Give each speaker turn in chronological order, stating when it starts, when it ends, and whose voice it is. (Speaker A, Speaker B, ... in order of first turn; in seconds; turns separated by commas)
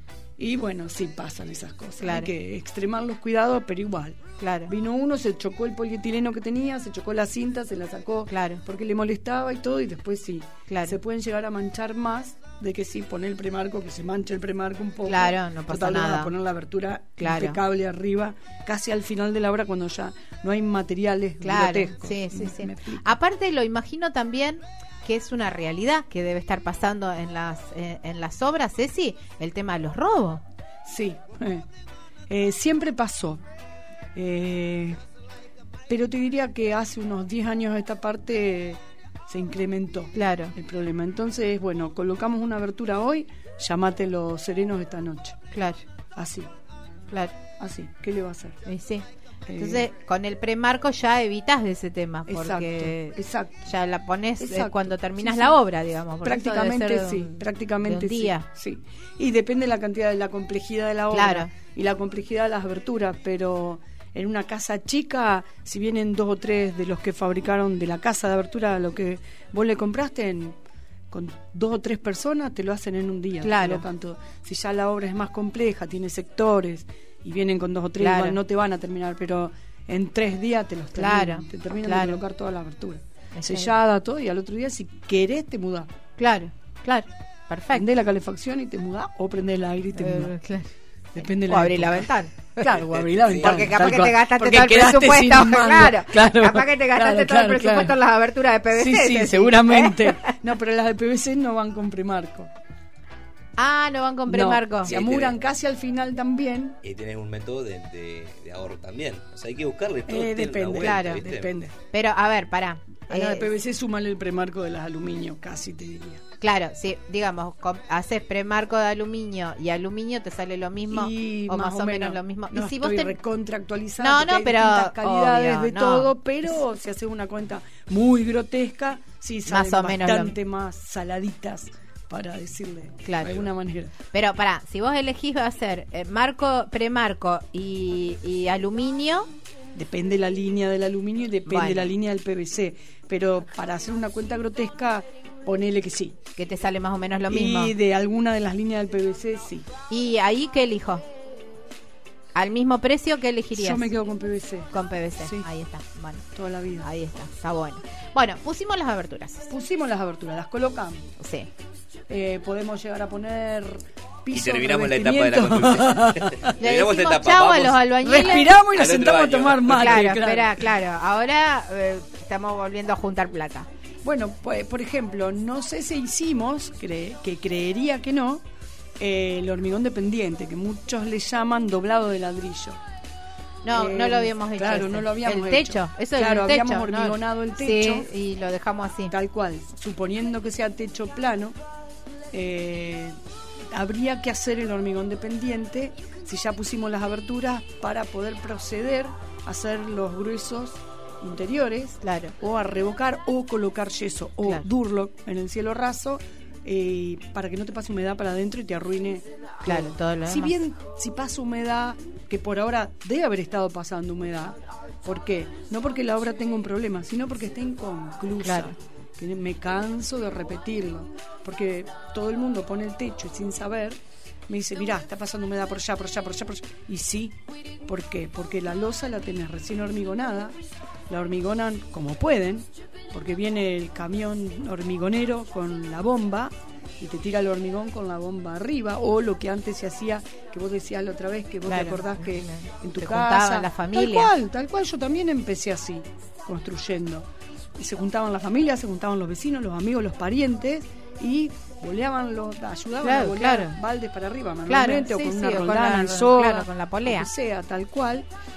Speaker A: 0.4-23.1, Speaker B: 2.0-2.3, Speaker B: 4.4-4.7, Speaker B: 8.3-8.6, Speaker B: 10.7-11.0, Speaker B: 15.1-16.3, Speaker B: 17.2-17.6, Speaker B: 21.4-30.4, Speaker A: 30.8-31.6, Speaker A: 32.3-33.4, Speaker A: 34.1-35.0, Speaker A: 35.9-45.4, Speaker B: 40.1-40.5, Speaker B: 45.5-45.8, Speaker A: 46.1-46.5, Speaker B: 47.1-47.4, Speaker A: 47.6-48.6, Speaker B: 48.6-58.5, Speaker A: 49.5-49.9, Speaker A: 52.3-53.7, Speaker A: 54.4-55.6, Speaker A: 56.2-70.6, Speaker B: 61.1-61.5, Speaker A: 71.1-85.9, Speaker B: 73.4-73.8, Speaker B: 78.0-78.4, Speaker B: 81.0-82.2, Speaker B: 83.3-83.7, Speaker B: 86.2-87.9, Speaker A: 87.7-90.3, Speaker B: 90.0-90.7, Speaker A: 91.1-98.0, Speaker B: 91.4-100.3, Speaker C: 92.9-93.7, Speaker A: 98.7-102.5, Speaker B: 103.6-104.9, Speaker A: 104.3-106.8, Speaker C: 104.8-105.3, Speaker C: 106.8-111.5, Speaker A: 110.1-111.8, Speaker B: 110.7-111.2, Speaker B: 111.9-113.5, Speaker A: 113.1-116.2, Speaker B: 116.4-123.2, Speaker A: 120.9-133.9, Speaker B: 124.0-126.6, Speaker B: 129.5-130.3, Speaker B: 133.0-133.4, Speaker C: 133.2-133.5, Speaker B: 134.1-139.3, Speaker A: 139.7-146.2, Speaker B: 141.5-141.9, Speaker B: 146.3-147.7, Speaker A: 147.3-149.7, Speaker B: 149.9-151.0, Speaker B: 152.3-153.9, Speaker A: 153.5-155.4, Speaker B: 154.7-156.3, Speaker A: 156.3-156.9, Speaker B: 156.8-159.5, Speaker A: 159.5-161.1, Speaker B: 161.2-161.5, Speaker A: 162.1-166.5, Speaker C: 164.3-170.1, Speaker B: 166.6-168.6, Speaker A: 168.0-170.7, Speaker B: 169.7-173.7, Speaker A: 174.0-178.4, Speaker A: 179.0-182.8, Speaker B: 183.6-189.1, Speaker A: 183.7-188.1, Speaker A: 189.1-191.6, Speaker A: 192.3-193.2, Speaker A: 193.7-230.6, Speaker B: 202.0-202.3, Speaker B: 209.6-210.6, Speaker B: 218.4-218.8, Speaker A: 231.1-258.3, Speaker B: 241.7-244.3, Speaker B: 253.0-253.8, Speaker B: 254.7-257.3